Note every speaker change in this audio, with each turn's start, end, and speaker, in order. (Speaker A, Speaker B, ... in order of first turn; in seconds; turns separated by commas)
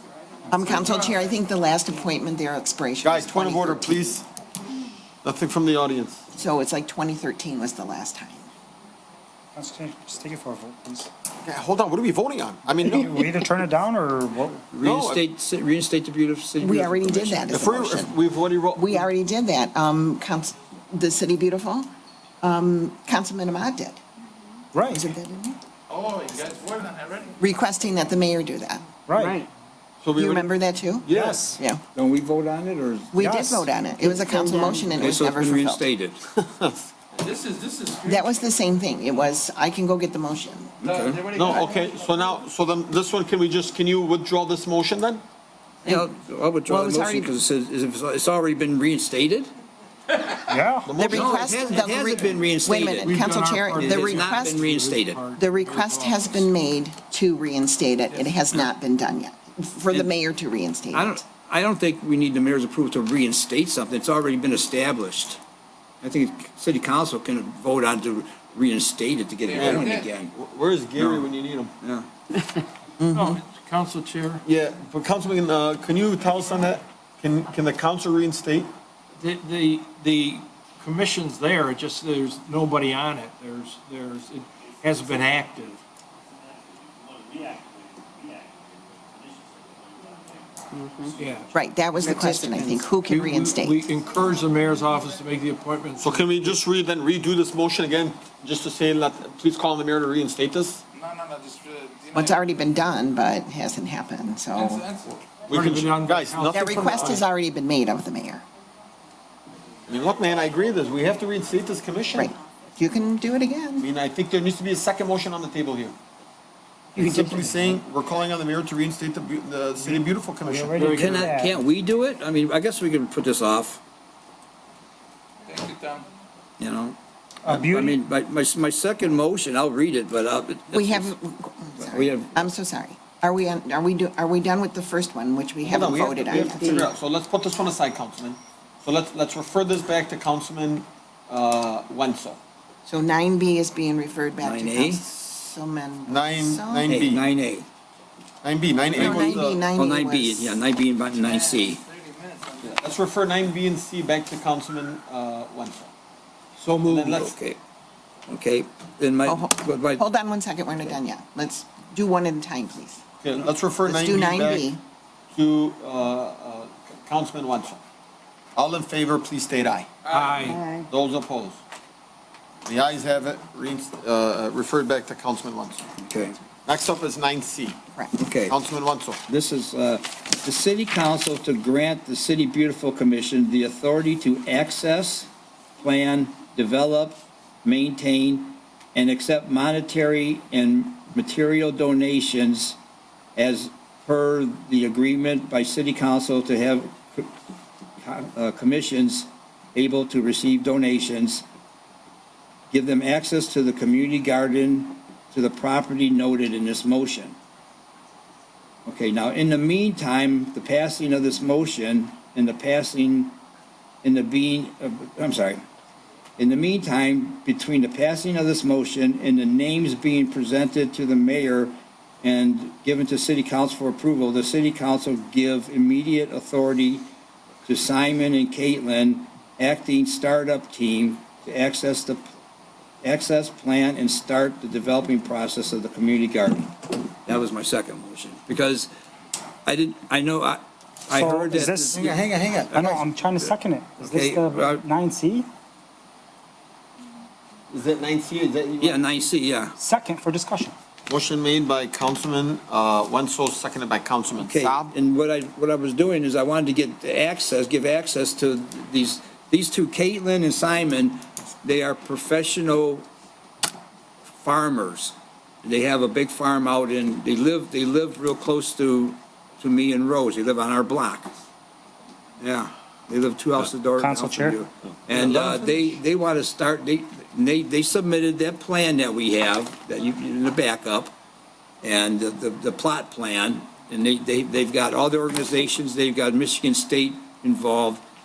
Speaker A: 0.5-4.1, Speaker B: 3.0-4.3, Speaker B: 5.2-6.2, Speaker A: 6.3-8.5, Speaker C: 9.6-11.1, Speaker B: 11.4-13.3, Speaker C: 12.8-14.6, Speaker D: 14.7-17.6, Speaker B: 14.8-15.2, Speaker A: 16.6-18.2, Speaker B: 17.5-19.0, Speaker A: 18.8-21.9, Speaker A: 22.4-24.0, Speaker C: 24.7-25.1, Speaker A: 24.8-25.6, Speaker E: 26.0-27.1, Speaker A: 27.4-28.8, Speaker C: 29.1-29.4, Speaker E: 29.2-29.5, Speaker B: 30.0-30.5, Speaker A: 30.2-31.8, Speaker B: 31.1-31.5, Speaker C: 31.1-31.6, Speaker D: 31.9-33.2, Speaker A: 33.1-35.8, Speaker C: 33.2-33.6, Speaker E: 34.0-34.9, Speaker D: 35.0-36.2, Speaker B: 36.4-37.0, Speaker E: 37.2-38.1, Speaker A: 38.0-40.7, Speaker D: 40.8-41.3, Speaker E: 40.9-41.9, Speaker B: 41.3-45.2, Speaker D: 45.9-49.5, Speaker A: 46.7-47.4, Speaker C: 50.5-50.9, Speaker B: 50.9-51.4, Speaker A: 51.0-54.6, Speaker D: 51.1-55.2, Speaker F: 53.0-56.5, Speaker A: 55.4-61.2, Speaker D: 60.9-65.4, Speaker D: 66.0-70.3, Speaker E: 69.5-70.1, Speaker B: 69.5-71.7, Speaker D: 71.0-71.3, Speaker D: 71.8-72.1, Speaker A: 73.0-73.4, Speaker F: 73.1-74.4, Speaker B: 74.4-78.7, Speaker F: 79.2-85.8, Speaker E: 87.0-91.1, Speaker F: 91.2-91.5, Speaker A: 91.5-93.8, Speaker E: 92.0-93.0, Speaker F: 93.1-96.6, Speaker B: 96.0-100.8, Speaker E: 101.0-102.3, Speaker A: 102.1-104.9, Speaker E: 104.6-105.1, Speaker B: 105.5-107.2, Speaker F: 105.5-107.2, Speaker A: 106.5-108.5, Speaker B: 109.9-112.3, Speaker A: 112.2-113.9, Speaker B: 113.8-116.0, Speaker D: 117.0-117.8, Speaker B: 117.0-121.3, Speaker C: 120.4-121.6, Speaker F: 120.8-121.2, Speaker D: 120.9-123.8, Speaker E: 125.5-126.0, Speaker D: 126.6-131.2, Speaker C: 127.5-128.0, Speaker A: 130.7-136.8, Speaker D: 131.9-132.5, Speaker B: 135.6-142.4, Speaker A: 142.8-147.1, Speaker D: 144.4-145.0, Speaker B: 146.1-147.2, Speaker D: 146.9-147.7, Speaker B: 148.4-149.6, Speaker A: 148.9-150.6, Speaker D: 148.9-151.8, Speaker E: 151.3-152.6, Speaker B: 152.6-155.9, Speaker D: 156.6-157.6, Speaker B: 156.7-157.3, Speaker D: 158.3-160.0, Speaker A: 159.3-163.0, Speaker B: 163.2-164.7, Speaker A: 163.9-164.8, Speaker B: 165.3-167.8, Speaker B: 168.6-169.9, Speaker E: 170.1-170.8, Speaker F: 170.1-170.6, Speaker B: 170.9-171.6, Speaker B: 172.7-175.8, Speaker D: 176.0-176.4, Speaker B: 176.7-177.8, Speaker D: 178.2-178.6, Speaker B: 178.5-179.2, Speaker D: 179.3-192.8, Speaker D: 193.4-197.3, Speaker D: 198.0-201.4, Speaker D: 202.7-207.4, Speaker D: 208.9-213.4, Speaker D: 214.0-215.6, Speaker D: 216.4-227.1, Speaker D: 227.7-232.2, Speaker D: 233.0-236.7, Speaker D: 237.3-238.9, Speaker D: 239.7-242.1, Speaker C: 241.1-242.2, Speaker B: 241.9-242.9, Speaker D: 242.7-244.8, Speaker C: 242.7-245.5, Speaker B: 247.7-249.0, Speaker D: 248.8-249.8, Speaker C: 249.8-250.8, Speaker B: 251.1-254.9, Speaker D: 254.4-263.1, Speaker D: 264.4-271.3, Speaker D: 272.4-281.1, Speaker C: 274.0-274.6, Speaker B: 275.1-275.5, Speaker D: 281.8-288.0